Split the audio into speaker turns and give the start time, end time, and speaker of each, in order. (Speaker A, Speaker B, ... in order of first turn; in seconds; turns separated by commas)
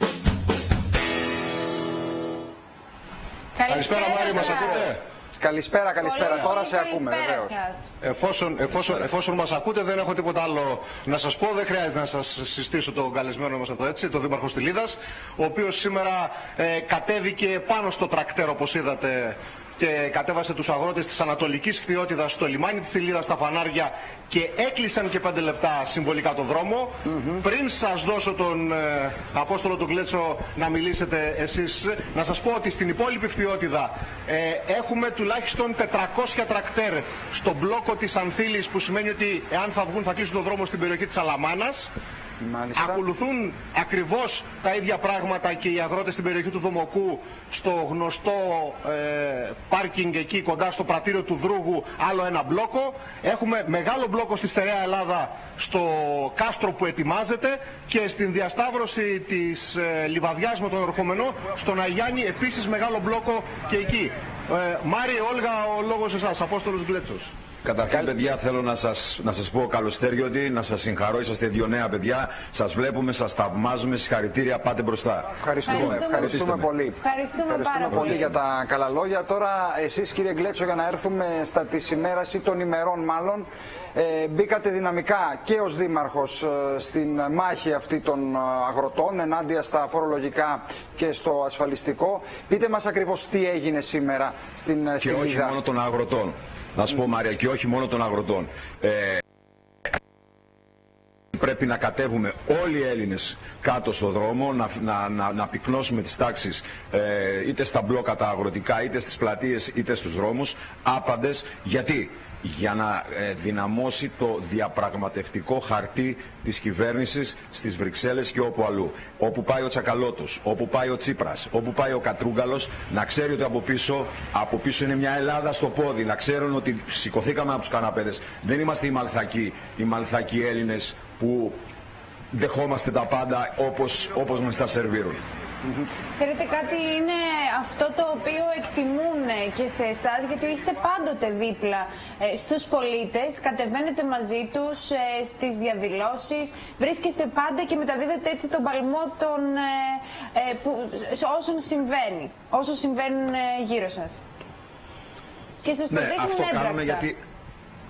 Speaker A: 3.6-5.0, Speaker B: 3.7-5.0, Speaker C: 5.3-7.6, Speaker A: 6.0-7.9, Speaker B: 8.0-41.9, Speaker C: 42.4-43.0, Speaker B: 42.8-67.3, Speaker D: 67.6-76.7, Speaker C: 75.4-95.6, Speaker A: 75.7-76.3, Speaker A: 77.0-78.3, Speaker D: 95.0-99.2, Speaker D: 101.3-131.6, Speaker D: 132.3-135.2, Speaker A: 136.2-154.2, Speaker A: 155.6-157.1, Speaker D: 155.9-157.2